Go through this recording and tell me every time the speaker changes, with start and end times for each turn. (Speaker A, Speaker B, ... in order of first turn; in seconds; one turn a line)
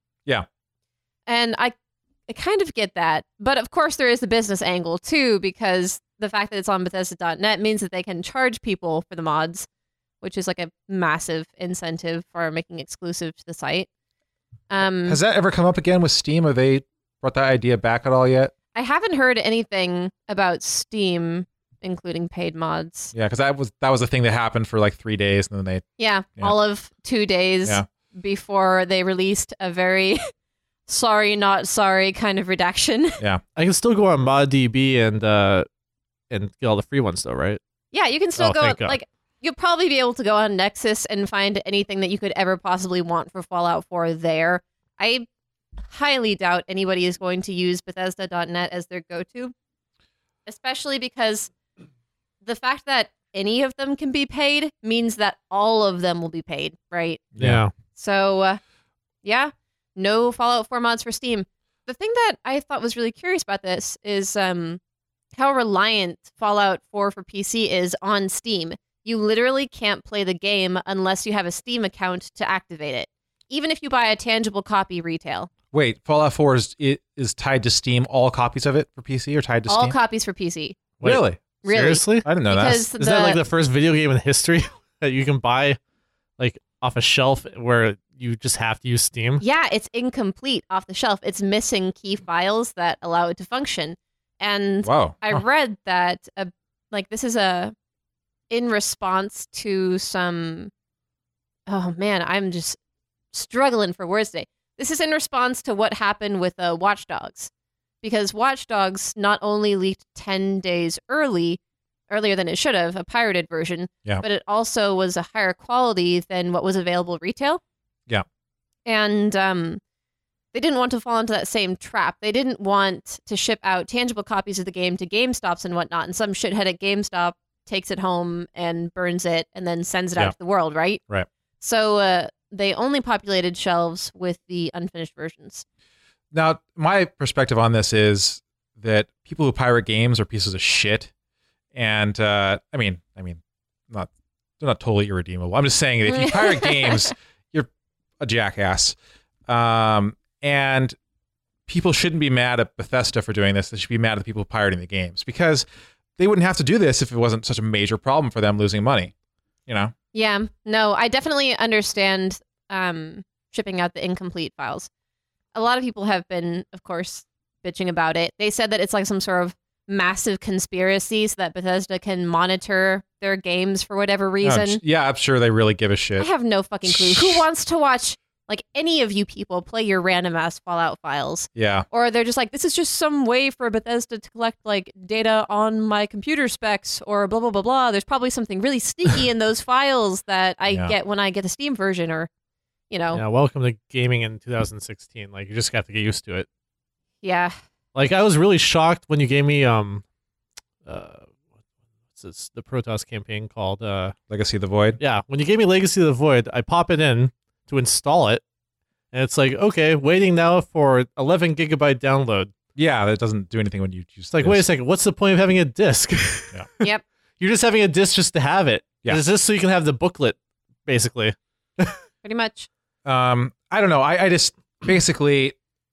Speaker A: 1.3-1.7
Speaker A: 2.3-9.7
Speaker A: 10.2-13.9
Speaker A: 14.7-15.2
Speaker B: 15.1-18.5
Speaker A: 18.7-23.1
Speaker B: 23.1-25.8
Speaker A: 26.0-30.2
Speaker A: 30.9-33.2
Speaker C: 33.5-35.7
Speaker C: 36.3-37.6
Speaker A: 37.9-45.3
Speaker C: 38.4-39.0
Speaker A: 45.9-49.5
Speaker A: 50.5-51.5
Speaker A: 52.4-57.2
Speaker B: 57.3-57.6
Speaker C: 57.4-57.7
Speaker A: 57.9-58.6
Speaker A: 59.2-64.8
Speaker A: 65.3-75.5
Speaker B: 75.7-79.9
Speaker A: 79.7-80.8
Speaker C: 81.0-82.3
Speaker B: 81.0-81.4
Speaker A: 81.6-83.4
Speaker B: 82.2-82.9
Speaker C: 83.0-85.8
Speaker C: 86.4-89.4
Speaker A: 89.4-97.7
Speaker B: 94.8-95.4
Speaker A: 98.5-100.7
Speaker A: 101.7-102.8
Speaker A: 103.3-107.5
Speaker A: 108.0-117.6
Speaker A: 118.8-119.8
Speaker A: 120.5-131.0
Speaker A: 131.6-135.6
Speaker B: 136.3-141.1
Speaker B: 141.7-147.7
Speaker A: 146.1-147.1
Speaker B: 148.2-148.9
Speaker B: 149.5-150.9
Speaker B: 151.7-155.7
Speaker B: 156.2-159.1
Speaker B: 159.7-159.9
Speaker A: 160.1-164.9
Speaker A: 165.5-174.8
Speaker B: 174.4-176.3
Speaker A: 176.2-192.3
Speaker B: 176.8-177.4
Speaker B: 181.5-181.8
Speaker B: 190.7-190.9
Speaker A: 192.9-193.2
Speaker C: 193.1-196.5
Speaker A: 197.2-197.6
Speaker C: 197.9-200.0
Speaker C: 200.8-201.3
Speaker C: 202.1-204.1
Speaker B: 204.3-205.0
Speaker C: 205.0-208.4
Speaker C: 209.1-212.5
Speaker B: 212.8-214.6
Speaker C: 214.3-216.8
Speaker C: 217.4-222.0
Speaker A: 222.2-222.7
Speaker B: 223.0-225.5